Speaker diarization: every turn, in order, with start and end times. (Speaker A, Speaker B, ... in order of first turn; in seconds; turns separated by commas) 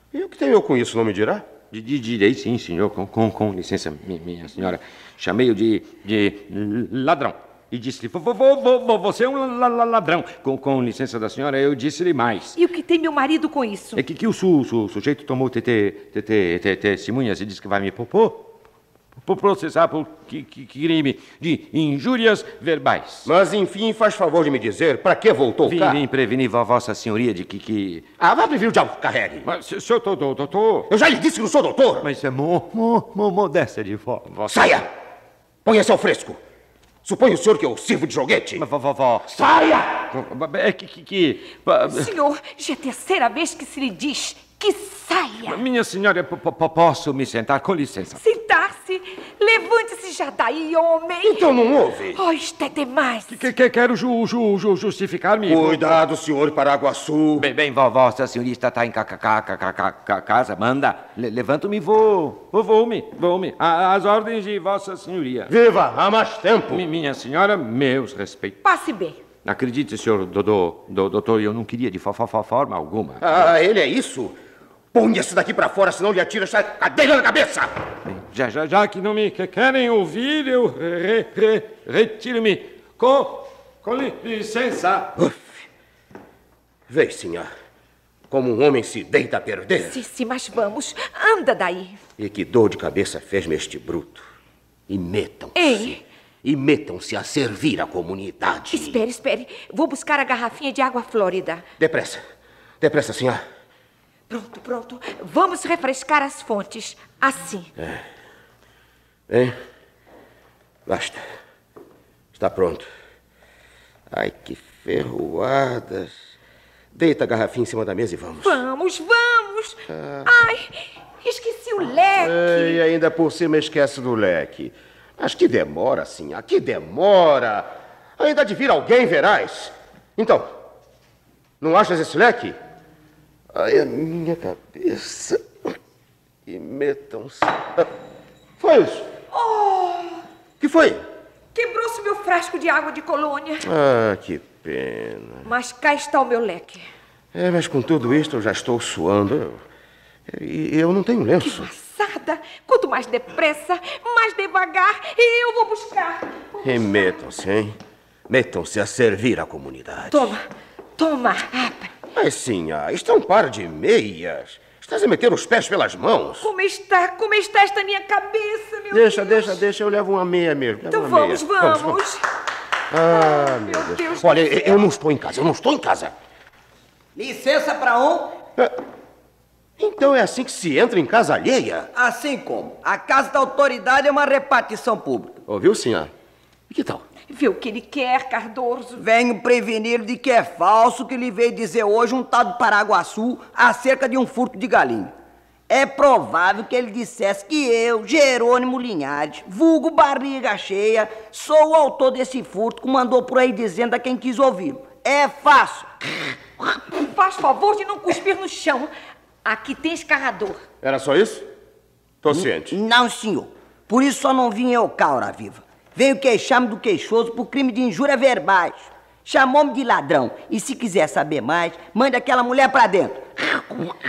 Speaker A: 0.1-1.5, Speaker B: 1.7-12.5, Speaker C: 12.5-14.0, Speaker B: 14.0-18.4, Speaker B: 19.3-23.2, Speaker A: 23.2-26.0, Speaker B: 25.7-28.0, Speaker A: 28.2-29.5, Speaker B: 29.5-30.9, Speaker A: 30.9-32.1, Speaker B: 32.0-34.5, Speaker A: 34.5-34.9, Speaker A: 35.6-36.4, Speaker A: 37.0-38.7, Speaker B: 38.6-39.2, Speaker A: 39.3-39.9, Speaker B: 40.1-42.1, Speaker C: 41.8-45.6, Speaker B: 45.5-48.1, Speaker C: 48.1-51.5, Speaker A: 51.2-52.2, Speaker C: 52.1-53.4, Speaker B: 53.3-55.9, Speaker A: 55.4-57.5, Speaker B: 57.4-65.5, Speaker A: 65.5-66.9, Speaker B: 66.8-68.5, Speaker C: 68.6-69.2, Speaker B: 69.4-73.2, Speaker A: 73.2-74.3, Speaker A: 74.9-77.7, Speaker B: 78.1-85.1, Speaker A: 85.2-85.6, Speaker A: 86.9-87.5, Speaker A: 88.3-90.0, Speaker C: 89.8-92.0, Speaker A: 92.2-94.2, Speaker A: 94.9-99.0, Speaker C: 95.5-96.0, Speaker C: 98.7-101.6, Speaker A: 101.8-102.2, Speaker A: 102.8-103.4, Speaker C: 104.3-107.7, Speaker A: 107.8-108.0, Speaker A: 109.3-109.5, Speaker A: 110.9-111.2, Speaker A: 112.3-112.9, Speaker A: 114.1-116.1, Speaker A: 116.9-118.6, Speaker C: 118.4-122.8, Speaker A: 119.9-120.3, Speaker A: 122.2-130.5, Speaker A: 131.6-132.6, Speaker A: 133.5-135.5, Speaker A: 136.4-137.9, Speaker A: 138.6-139.1, Speaker C: 139.3-140.2, Speaker A: 140.6-141.0, Speaker C: 141.5-143.6, Speaker A: 143.6-145.5, Speaker C: 145.4-146.8, Speaker A: 147.3-149.6, Speaker A: 150.3-151.7, Speaker C: 151.4-157.2, Speaker A: 156.6-157.8, Speaker A: 158.3-160.3, Speaker C: 160.1-160.4, Speaker C: 161.0-161.9, Speaker A: 162.1-166.5, Speaker C: 166.4-169.6, Speaker A: 168.9-171.9, Speaker C: 170.9-172.2, Speaker A: 172.9-176.1, Speaker C: 173.1-174.8, Speaker D: 177.2-178.3, Speaker A: 179.8-181.9, Speaker D: 181.9-185.4, Speaker A: 185.5-186.1, Speaker A: 186.7-187.0, Speaker C: 187.3-189.0, Speaker D: 189.0-195.1, Speaker D: 195.7-205.9, Speaker C: 206.9-208.9, Speaker C: 209.4-210.6, Speaker A: 210.8-211.5, Speaker A: 212.2-212.7, Speaker D: 212.3-223.9